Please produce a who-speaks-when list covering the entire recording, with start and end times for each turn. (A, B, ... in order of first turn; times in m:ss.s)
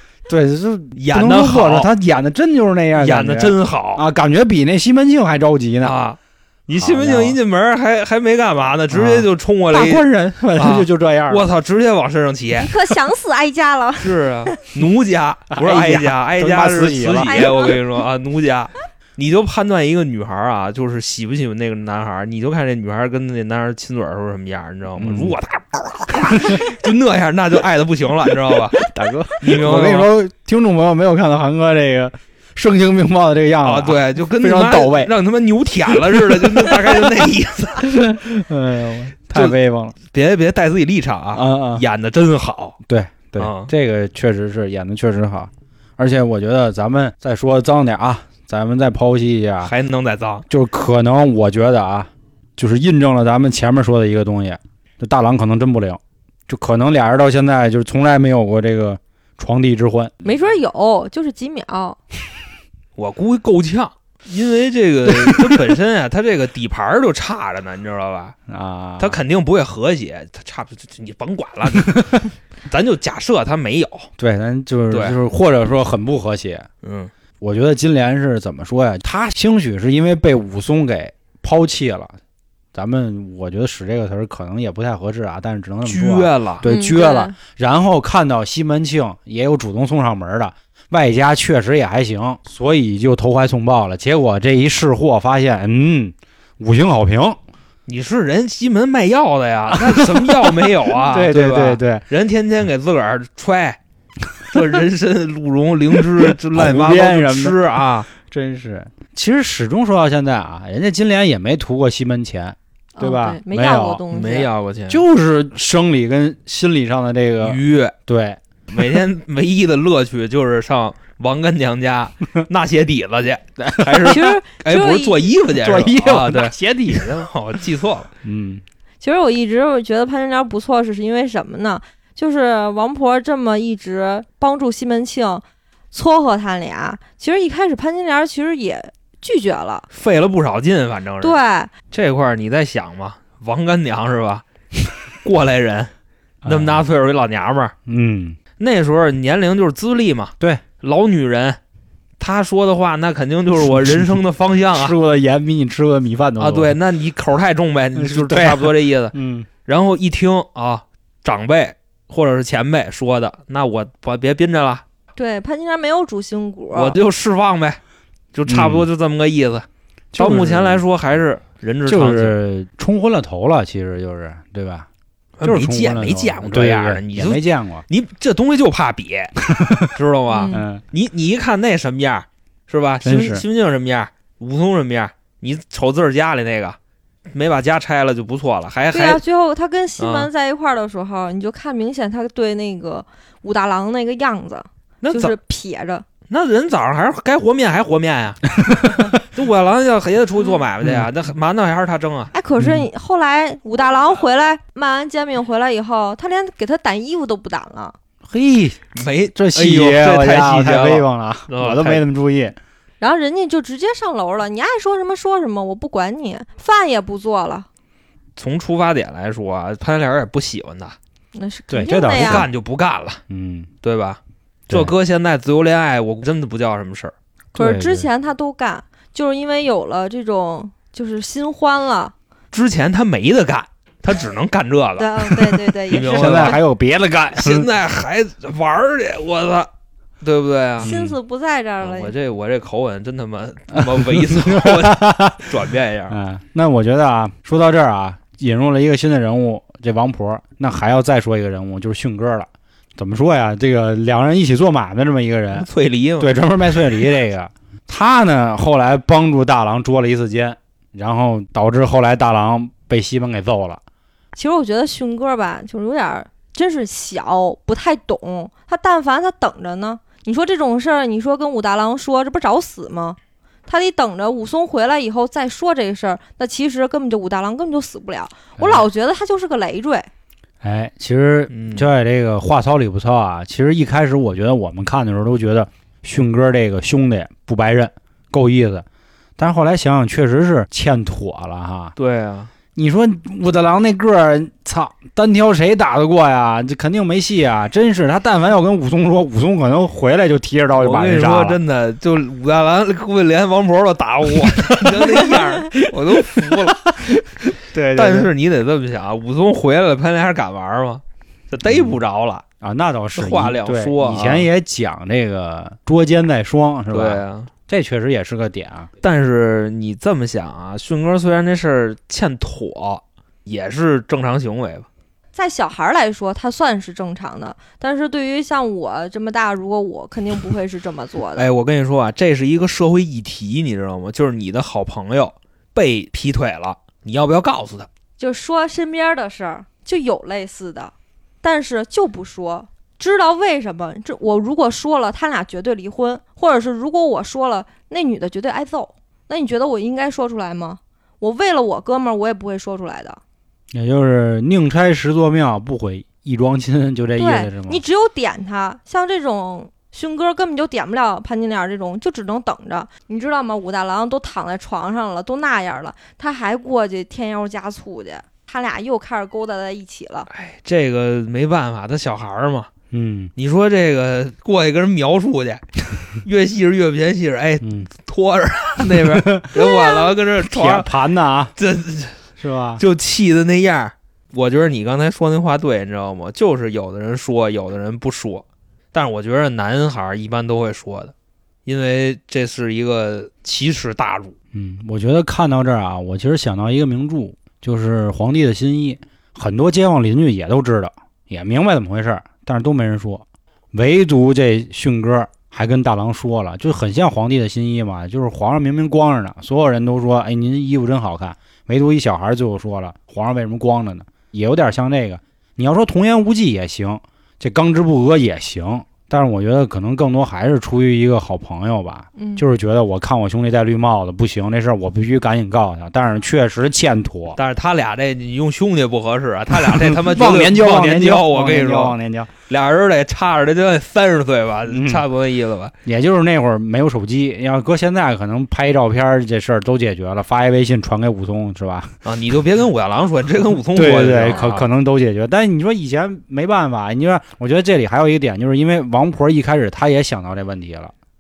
0:00.3-0:06.0 A
0:01.0-0:01.9 B
0:03.0-0:04.0 B
0:05.8-0:10.0 B
0:06.7-0:07.4 A
0:08.9-0:11.5 A
0:10.6-0:12.7 B
0:12.6-0:14.6 C
0:14.0-0:28.8 B
0:15.5-0:17.5 A
0:17.2-0:17.8 C
0:25.0-0:25.4 A
0:26.3-0:26.7 A
0:28.8-0:35.1 A
0:29.4-0:30.1 B
0:33.6-0:37.9 B
0:36.2-0:36.9 A
0:37.8-0:40.0 A
0:40.1-0:42.8 B
0:41.3-0:41.8 A
0:42.9-0:49.7 A
0:43.4-0:43.7 B
0:49.6-0:50.4 B
0:50.5-1:00.1 A
1:00.2-1:02.0 C
1:03.0-1:08.4 B
1:05.1-1:05.5 A
1:08.5-1:09.2 A
1:09.0-1:14.1 B
1:14.2-1:16.7 A
1:14.9-1:15.2 B
1:16.8-1:17.1 B
1:17.4-1:22.2 A
1:22.7-1:37.4 A
1:25.8-1:26.7 B
1:26.6-1:27.4 C
1:37.9-1:43.8 B
1:39.7-1:42.0 A
1:44.5-1:48.1 B
1:46.0-1:47.6 A
1:48.1-1:54.0 A
1:53.0-1:54.5 C
1:54.1-1:55.0 B
1:54.9-1:58.8 A
1:57.4-1:57.9 B
1:58.7-2:08.1 B
2:03.6-2:04.2 A
2:04.0-2:05.2 C
2:05.6-2:07.3 A
2:08.2-2:08.6 A
2:09.0-2:19.9 C
2:19.9-2:21.4 B
2:21.2-2:21.7 C
2:21.9-2:24.4 B
2:25.2-2:25.9 B
2:26.4-2:26.8 A
2:26.5-2:27.7 B
2:27.9-2:28.4 A
2:28.6-2:31.6 B
2:32.2-2:35.0 B
2:33.7-2:34.0 A
2:34.7-2:36.8 A
2:36.4-2:44.8 B
2:38.0-2:39.5 A
2:45.2-2:47.0 C
2:46.7-2:47.8 B
2:48.3-2:49.7 B
2:48.5-2:48.9 A
2:50.1-2:50.8 A
2:50.2-2:52.4 B
2:51.9-2:54.9 A
2:55.4-2:59.4 B
2:55.4-2:57.9 A
2:59.5-2:59.9 A
2:59.9-3:06.8 B
3:00.3-3:00.7 C
3:00.5-3:00.8 A
3:03.0-3:03.4 A
3:07.3-3:09.2 B
3:08.9-3:16.0 C
3:10.0-3:10.3 B
3:15.0-3:15.4 B
3:16.3-3:22.3 B
3:18.7-3:19.0 A
3:22.3-3:28.0 C
3:22.6-3:22.9 A
3:28.2-3:32.6 A
3:29.0-3:32.0 B
3:33.0-3:37.7 C
3:38.4-3:41.0 B
3:41.4-3:42.5 C
3:41.7-3:42.5 A
3:42.1-3:43.2 B
3:43.3-3:43.7 A
3:43.8-3:47.1 B
3:44.7-3:44.9 A
3:47.5-3:52.1 C
3:47.6-3:48.1 A
3:52.5-3:56.6 B
3:55.0-3:56.6 C
3:56.0-3:57.7 A
3:57.4-3:59.7 B
4:00.2-4:00.9 B
4:00.8-4:02.1 C
4:00.8-4:01.2 A
4:01.8-4:06.2 B
4:03.7-4:15.7 A
4:15.5-4:16.3 B
4:16.2-4:23.8 A
4:24.3-4:40.1 C
4:38.6-4:38.8 A
4:40.6-4:48.9 A
4:41.5-4:41.9 B
4:49.4-4:51.9 A
4:52.0-4:52.5 B
4:52.8-5:01.6 A
5:00.8-5:12.4 B
5:04.4-5:05.8 A
5:06.4-5:07.2 A
5:07.7-5:08.3 A
5:11.7-5:12.0 A
5:12.6-5:18.9 A
5:13.2-5:14.5 B
5:16.9-5:17.5 B
5:19.0-5:24.9 B
5:25.4-5:31.5 C
5:31.4-5:37.9 B
5:38.2-5:53.2 C
5:53.7-5:57.8 A
5:57.2-6:10.3 C
6:10.3-6:12.7 B
6:12.9-6:13.3 A
6:13.4-6:20.9 B
6:17.6-6:17.9 A
6:18.9-6:19.7 A
6:19.6-6:20.1 C
6:20.4-6:21.6 A
6:21.6-6:22.2 B
6:22.4-6:22.8 A
6:22.8-6:31.1 B
6:31.7-6:34.4 B
6:34.5-7:07.4 A
7:02.2-7:02.4 C
7:07.4-7:12.0 B
7:09.5-7:12.3 A
7:12.5-7:15.7 B
7:14.7-7:15.0 A
7:15.8-7:21.9 A
7:22.0-7:24.7 B
7:23.8-7:30.9 A